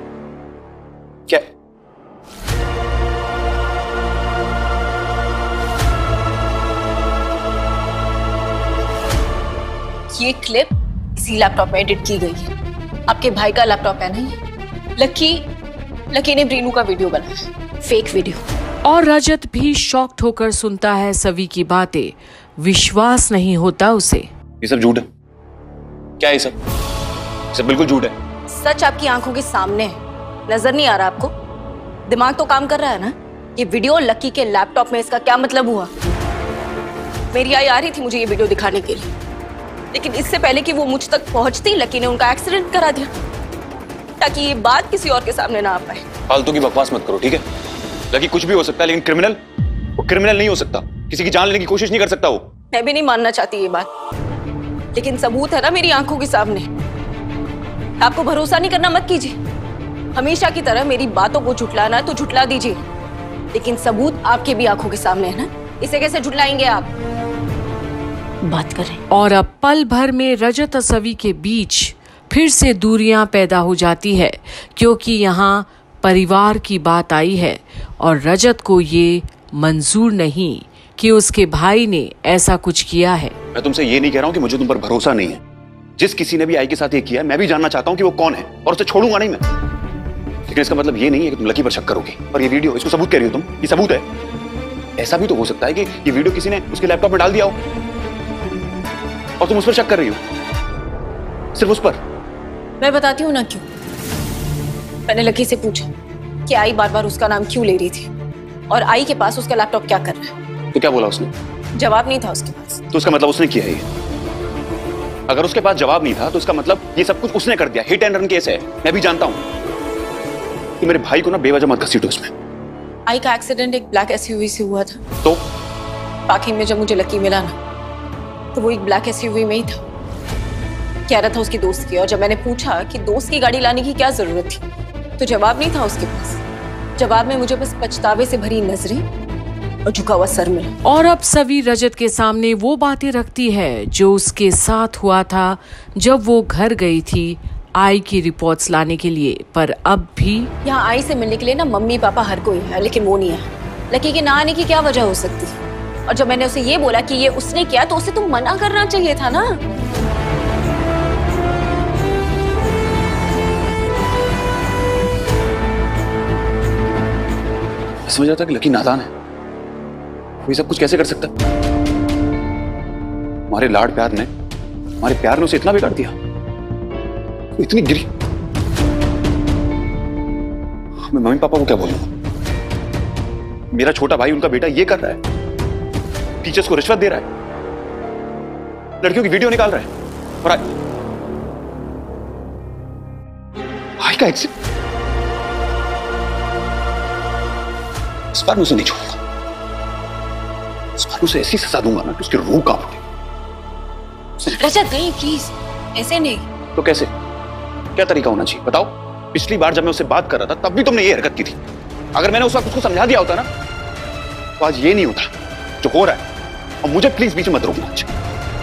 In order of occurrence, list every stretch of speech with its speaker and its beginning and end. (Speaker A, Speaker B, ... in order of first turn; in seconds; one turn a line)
Speaker A: 10.1-12.5
Speaker A: 13.1-14.3
Speaker A: 15.0-15.5
Speaker A: 16.1-18.4
Speaker B: 18.8-24.3
Speaker C: 24.6-25.1
Speaker C: 26.2-26.6
Speaker C: 27.5-28.1
Speaker A: 28.5-30.0
Speaker A: 30.5-31.3
Speaker A: 32.1-35.9
Speaker A: 37.3-39.1
Speaker A: 39.9-43.1
Speaker A: 44.2-46.0
Speaker C: 46.3-47.4
Speaker C: 48.1-49.4
Speaker C: 50.0-52.5
Speaker A: 52.7-53.9
Speaker A: 54.9-56.7
Speaker A: 58.0-59.4
Speaker A: 60.1-62.8
Speaker A: 63.5-66.9
Speaker A: 68.4-69.0
Speaker B: 69.1-83.3
Speaker C: 83.5-85.4
Speaker C: 86.0-89.5
Speaker C: 90.5-94.1
Speaker C: 95.0-97.6
Speaker C: 99.4-100.2
Speaker C: 101.5-102.0
Speaker A: 102.8-103.6
Speaker A: 105.1-105.9
Speaker A: 106.5-108.1
Speaker A: 108.7-110.3
Speaker C: 110.7-111.3
Speaker A: 111.8-112.8
Speaker C: 112.9-113.8
Speaker C: 115.3-119.4
Speaker C: 120.8-122.3
Speaker A: 123.1-125.0
Speaker C: 125.2-125.5
Speaker A: 126.3-127.5
Speaker A: 128.5-129.8
Speaker A: 131.1-134.6
Speaker A: 135.2-136.4
Speaker A: 137.0-139.0
Speaker A: 139.8-140.7
Speaker B: 140.8-150.5
Speaker A: 150.6-159.4
Speaker C: 168.1-169.1
Speaker C: 170.5-171.3
Speaker C: 173.5-174.3
Speaker C: 175.0-176.1
Speaker C: 177.6-178.1
Speaker C: 181.0-182.1
Speaker C: 183.7-185.2
Speaker C: 186.4-187.3
Speaker C: 189.0-189.9
Speaker C: 190.4-190.7
Speaker C: 194.0-194.5
Speaker C: 198.3-199.2
Speaker C: 201.0-203.0
Speaker A: 204.5-206.4
Speaker C: 206.8-207.1
Speaker C: 207.9-211.6
Speaker C: 212.1-213.5
Speaker C: 214.6-215.3
Speaker C: 215.8-216.2
Speaker C: 216.8-218.1